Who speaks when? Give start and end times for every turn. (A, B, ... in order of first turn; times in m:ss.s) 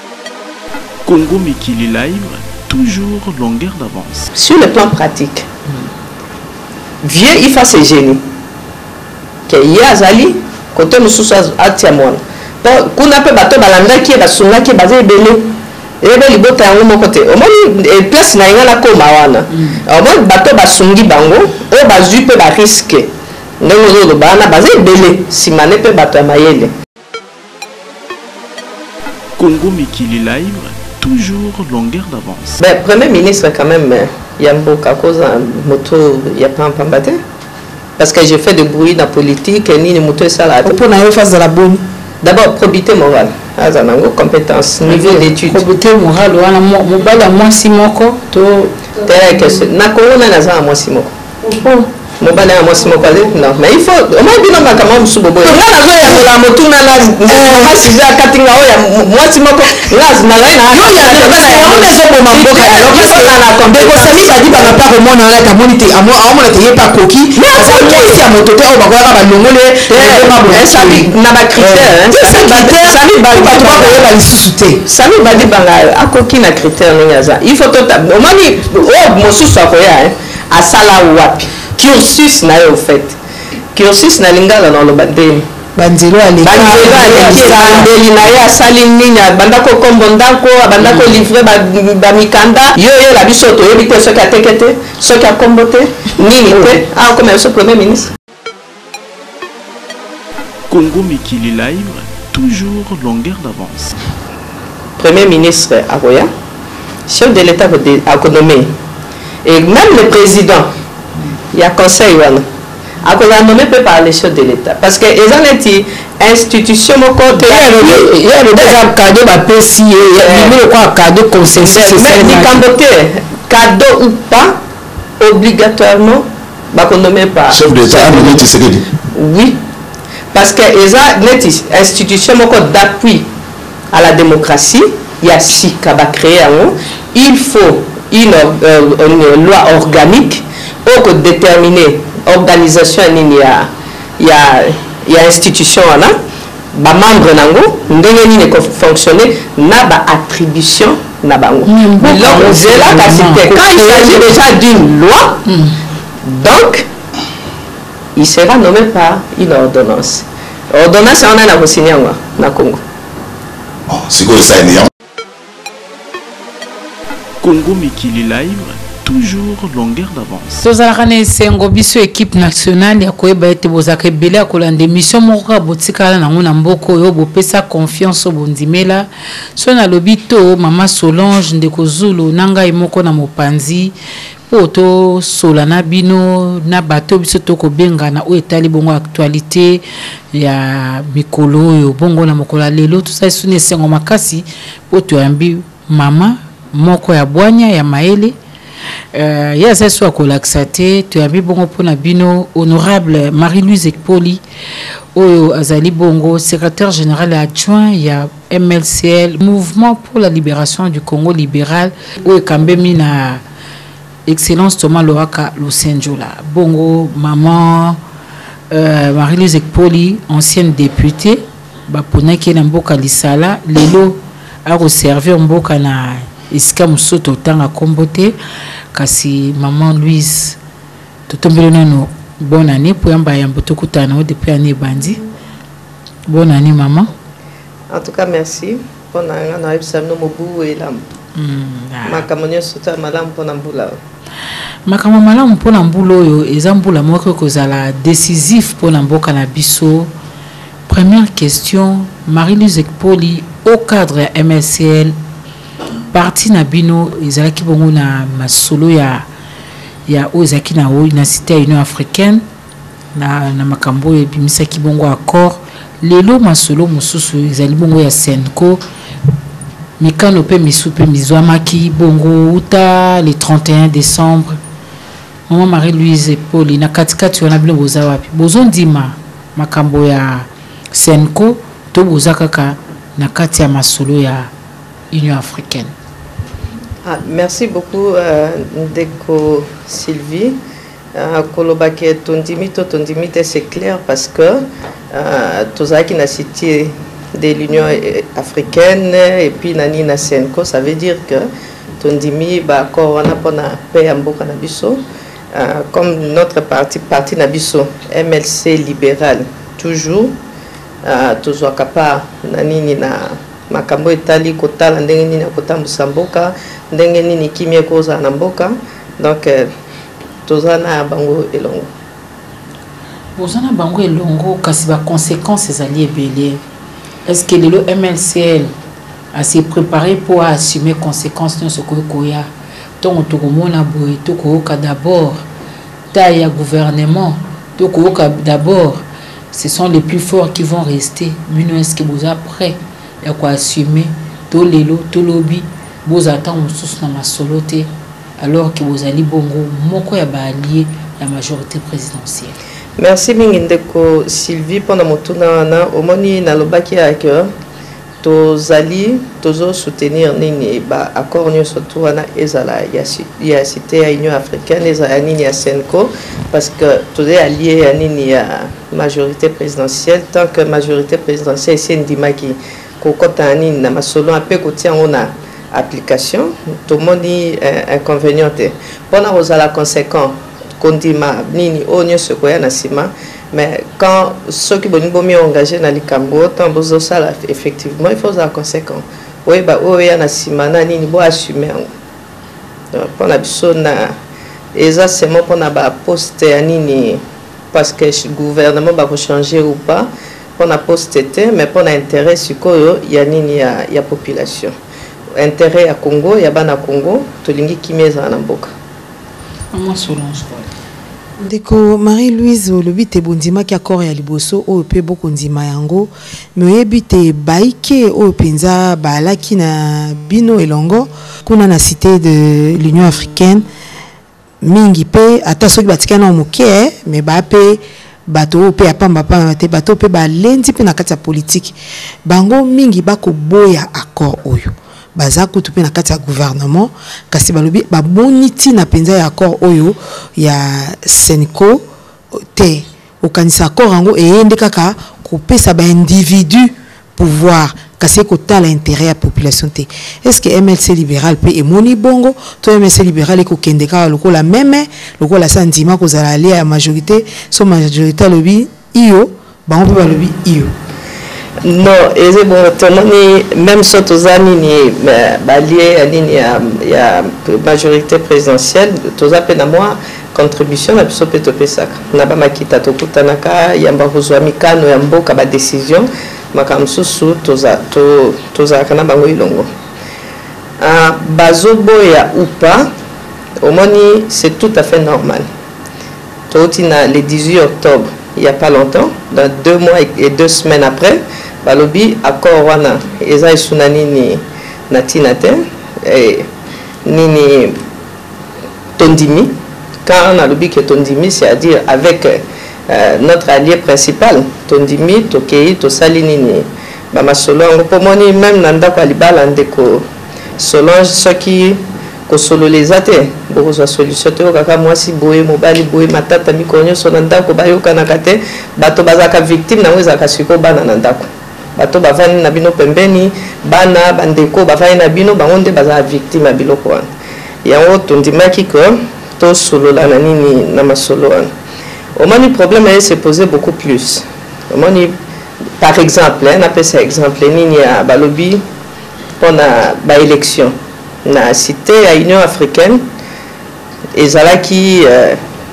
0:01.0-0:04.3 A
0:04.3-0:05.5 B
0:07.0-0:08.2 B
0:09.5-0:23.1 B
0:23.6-0:26.7 B
0:29.4-0:32.6 A
0:32.6-0:37.2 B
0:38.0-0:40.8 B
0:40.6-0:41.8 C
0:42.2-0:45.6 B
0:44.9-0:48.8 D
0:49.0-0:51.2 B
0:51.4-0:51.8 C
0:52.2-1:04.7 B
0:55.4-0:56.3 C
0:57.3-0:57.8 C
1:00.7-1:14.8 C
1:07.3-1:08.2 B
1:09.9-1:14.0 B
1:14.8-1:23.2 B
1:23.7-1:25.5 B
1:25.8-1:27.9 C
1:26.4-1:38.1 B
1:40.7-1:43.9 A
1:45.0-1:46.3 B
1:47.1-1:48.7 B
1:49.4-1:50.7 B
1:51.5-1:52.4 B
1:53.0-1:58.8 B
1:57.4-2:02.6 D
2:00.2-2:00.6 B
2:01.6-2:04.6 B
2:05.2-2:08.5 B
2:07.5-2:08.9 E
2:09.0-2:09.6 B
2:10.3-2:13.3 B
2:13.9-2:26.2 B
2:26.7-2:35.4 B
2:31.7-2:34.4 D
2:35.5-2:35.7 D
2:36.2-2:36.9 B
2:38.2-2:42.8 B
2:43.9-2:44.9 E
2:47.4-2:50.6 A
2:50.6-3:03.9 D
3:04.5-3:18.3 D
3:19.1-3:24.4 D
3:25.1-3:33.4 D
3:34.3-3:38.0 D
3:38.7-3:48.4 D
3:48.9-3:50.6 D
3:51.3-3:55.2 D
3:56.3-3:57.1 D
3:57.9-4:01.0 B
4:01.4-4:02.2 D
4:02.0-4:04.0 B
4:04.8-4:10.1 D
4:10.9-4:15.2 D
4:16.1-4:19.2 D
4:20.1-4:22.4 D
4:23.1-4:28.8 D
4:30.0-4:34.6 D
4:35.5-4:44.5 D
4:45.1-4:45.9 D
4:47.0-4:50.6 B
4:51.1-5:05.0 B
5:05.5-5:10.4 B
5:11.0-5:19.7 B
5:20.4-5:21.9 B
5:23.4-5:26.6 D
5:27.2-5:28.7 D
5:29.3-5:32.5 D
5:33.0-5:35.4 D
5:36.1-5:52.5 D
5:53.0-5:57.5 B
5:58.2-6:31.9 B
6:32.9-6:34.1 B
6:34.7-6:44.7 B
6:45.4-6:48.7 B
6:49.7-6:50.7 D
6:51.4-7:03.7 C
7:04.6-7:21.8 C
7:22.5-7:40.7 C
7:41.6-7:59.7 B
8:00.8-8:02.9 B
8:03.6-8:05.5 B
8:06.5-8:16.5 B
8:17.0-8:17.8 B
8:19.0-8:30.0 B
8:30.6-8:47.1 B
8:47.6-8:51.5 B
8:52.2-8:55.2 B
8:55.8-8:58.6 B
8:59.4-9:03.0 B
9:04.1-9:05.4 B